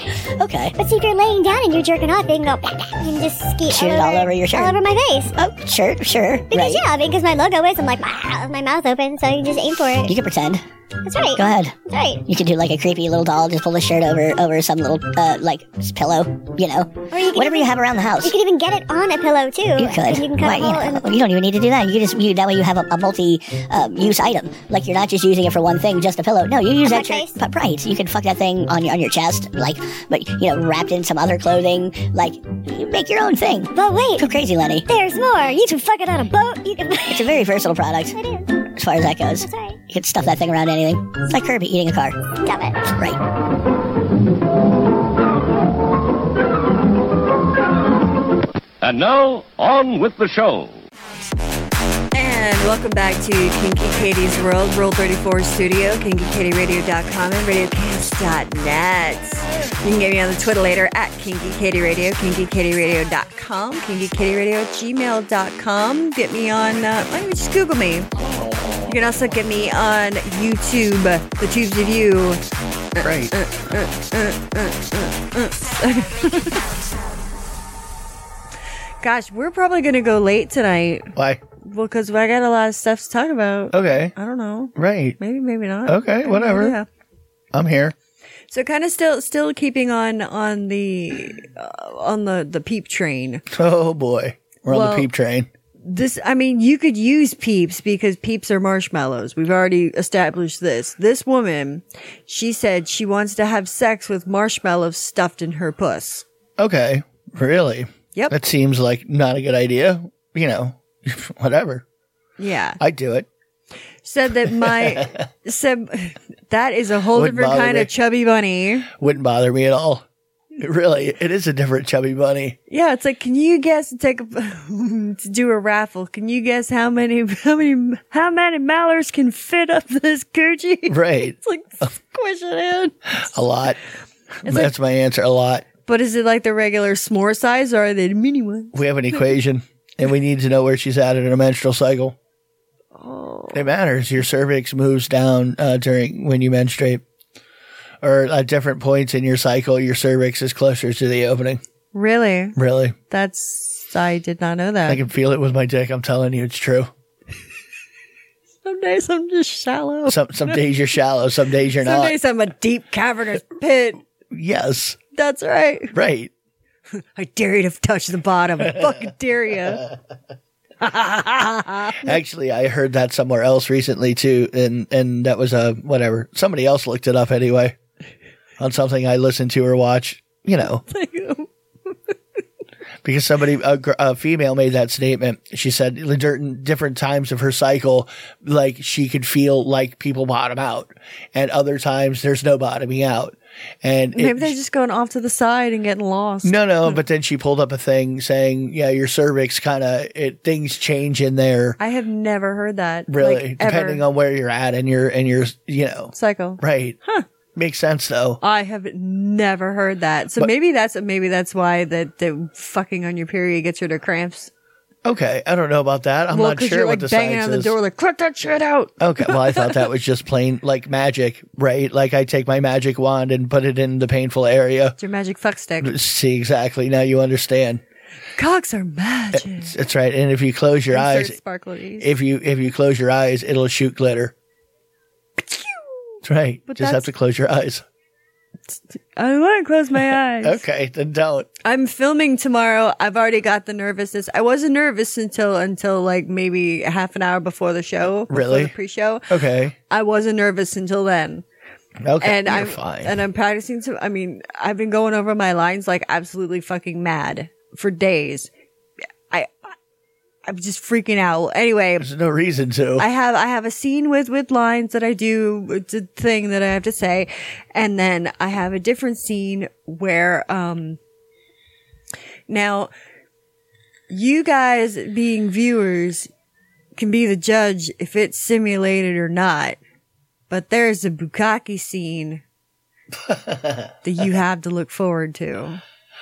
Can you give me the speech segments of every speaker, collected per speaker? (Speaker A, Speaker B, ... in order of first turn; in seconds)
Speaker A: 0.4-0.7, 3.7-4.8, 5.4-6.8, 10.1-10.6, 11.3-18.3, 19.8-34.8, 37.1-38.1, 38.8-42.2
Speaker B: 0.8-5.4, 6.5-10.1, 11.0-12.2, 17.1-21.1, 26.8-27.4, 33.7-34.3, 34.9-37.4, 38.1-38.5, 39.4-39.8, 42.4-42.9
Speaker C: 48.8-50.8
Speaker D: 52.1-68.1, 68.9-72.4, 73.0-76.6, 79.0-86.9, 88.5-93.4, 94.7-95.1, 95.8-106.2, 112.4-112.8, 114.0-118.9, 122.7-132.9, 134.4-134.7, 135.8-139.2, 142.9-143.6, 151.9-152.6, 153.1-155.0, 158.6-160.6, 161.8-164.0, 165.1-165.9, 166.9-169.8, 170.8-172.2, 180.8-181.9, 194.1-197.0, 201.8-204.0, 206.1-207.2, 208.4-214.5, 216.3-219.8, 225.0-225.9, 228.4-229.7, 230.9-232.1, 235.4-237.1, 238.7-240.6, 241.6-249.4, 249.9-251.4, 252.2-258.5, 259.3-259.7, 260.4-262.1, 263.0-271.0, 272.5-272.9, 274.1-276.3, 276.9-279.8, 280.5-282.4, 284.0-285.8
Speaker E: 73.0-73.3, 81.1-81.4, 83.7-84.1, 84.7-85.2, 85.8-86.8, 87.5-87.9, 93.5-95.5, 106.6-111.8, 112.8-113.3, 114.5-115.2, 117.1-117.9, 118.9-120.0, 120.5-122.6, 130.9-131.3, 133.1-133.8, 134.4-135.7, 138.7-142.2, 143.5-147.0, 148.0-151.6, 152.6-152.9, 154.8-156.9, 160.1-162.2, 164.3-165.0, 165.9-166.3, 168.6-169.0, 169.7-169.9, 172.0-177.8, 178.6-180.8, 183.0-194.5, 196.4-201.8, 203.1-207.0, 207.5-208.4, 215.0-217.8, 219.0-225.0, 225.8-227.8, 229.3-231.4, 232.0-234.3, 236.2-237.8, 240.4-241.5, 248.3-248.7, 249.3-249.7, 252.0-253.2, 262.0-263.1, 283.1-284.3